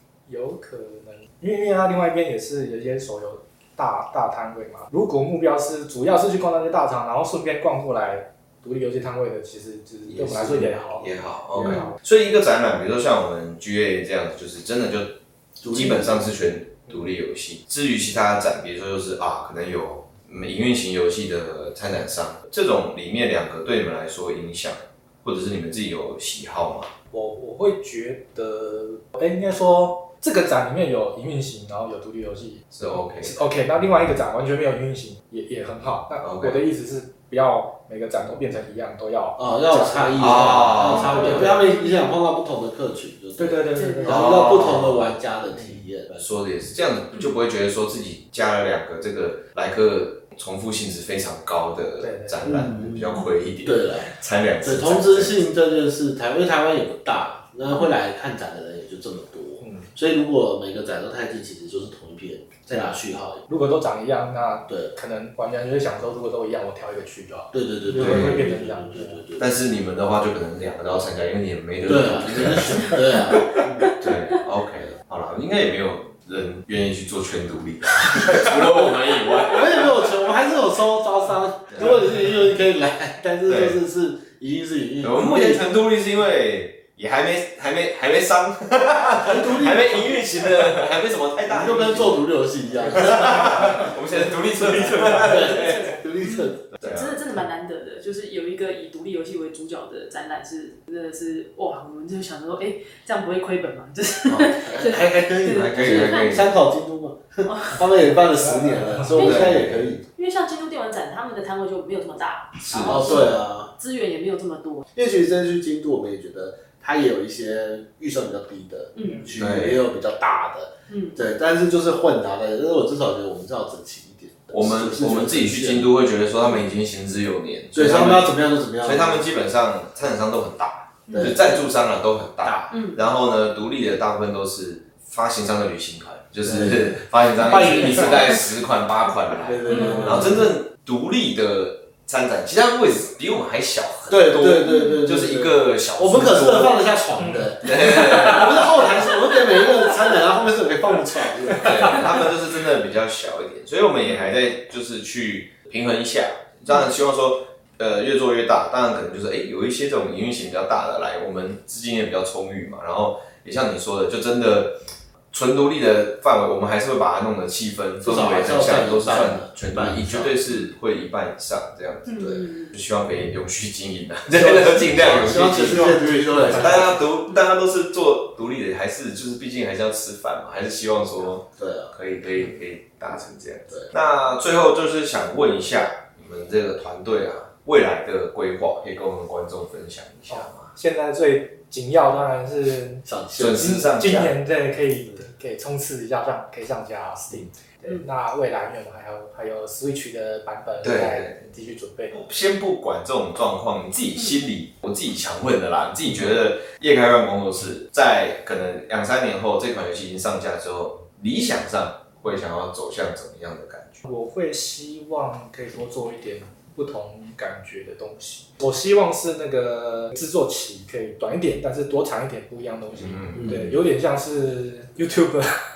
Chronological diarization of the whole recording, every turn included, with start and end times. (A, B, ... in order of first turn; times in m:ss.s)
0:00.3-0:11.9 A
0:10.1-0:10.7 B
0:11.0-0:15.2 C
0:15.6-0:16.3 B
0:15.7-0:26.9 C
0:27.1-0:41.6 A
0:32.7-0:33.4 C
0:36.2-0:36.6 C
0:39.4-0:46.4 B
0:40.2-0:41.6 C
0:40.8-0:42.2 D
0:43.4-0:44.7 A
0:43.7-0:44.2 D
0:44.0-0:45.1 C
0:46.2-0:55.4 C
0:52.0-0:52.4 A
0:52.4-1:03.5 B
0:59.6-0:59.9 A
1:03.5-1:09.2 A
1:04.7-1:04.9 B
1:07.5-1:09.5 B
1:08.0-1:08.5 C
1:09.4-1:20.0 C
1:11.8-1:13.9 B
1:13.8-1:14.3 D
1:18.2-1:25.8 B
1:23.5-1:23.8 C
1:25.0-1:36.0 C
1:29.2-1:36.6 B
1:32.7-1:35.4 A
1:35.3-1:46.4 D
1:36.7-1:37.2 C
1:44.3-1:50.0 B
1:45.4-1:46.5 C
1:47.4-1:47.9 D
1:48.4-1:49.2 A
1:49.1-1:49.6 D
1:49.1-1:49.8 C
1:50.1-1:54.8 D
1:52.6-1:53.4 C
1:52.8-1:53.7 B
1:54.9-2:05.9 B
1:59.0-1:59.3 D
1:59.3-1:59.8 C
2:00.9-2:01.2 D
2:04.5-2:26.9 C
2:07.7-2:09.3 B
2:11.1-2:11.4 D
2:11.1-2:11.6 B
2:12.4-2:12.7 B
2:12.7-2:13.0 D
2:16.4-2:18.4 B
2:19.4-2:20.5 B
2:19.7-2:20.4 D
2:19.8-2:20.1 A
2:24.1-2:32.1 B
2:24.7-2:25.0 D
2:27.2-2:28.3 A
2:27.6-2:29.0 C
2:29.4-2:29.9 D
2:31.6-2:44.7 C
2:34.0-2:34.3 D
2:45.3-3:10.7 C
2:48.0-2:50.4 B
2:52.0-2:52.7 D
2:52.1-2:52.4 B
2:54.3-2:57.0 B
2:56.1-2:56.9 A
3:01.6-3:01.9 B
3:10.3-3:22.2 A
3:13.0-3:13.8 B
3:13.4-3:14.4 C
3:20.8-3:21.4 C
3:22.1-3:34.0 C
3:34.0-3:45.6 A
3:42.9-3:43.7 C
3:43.4-3:43.7 B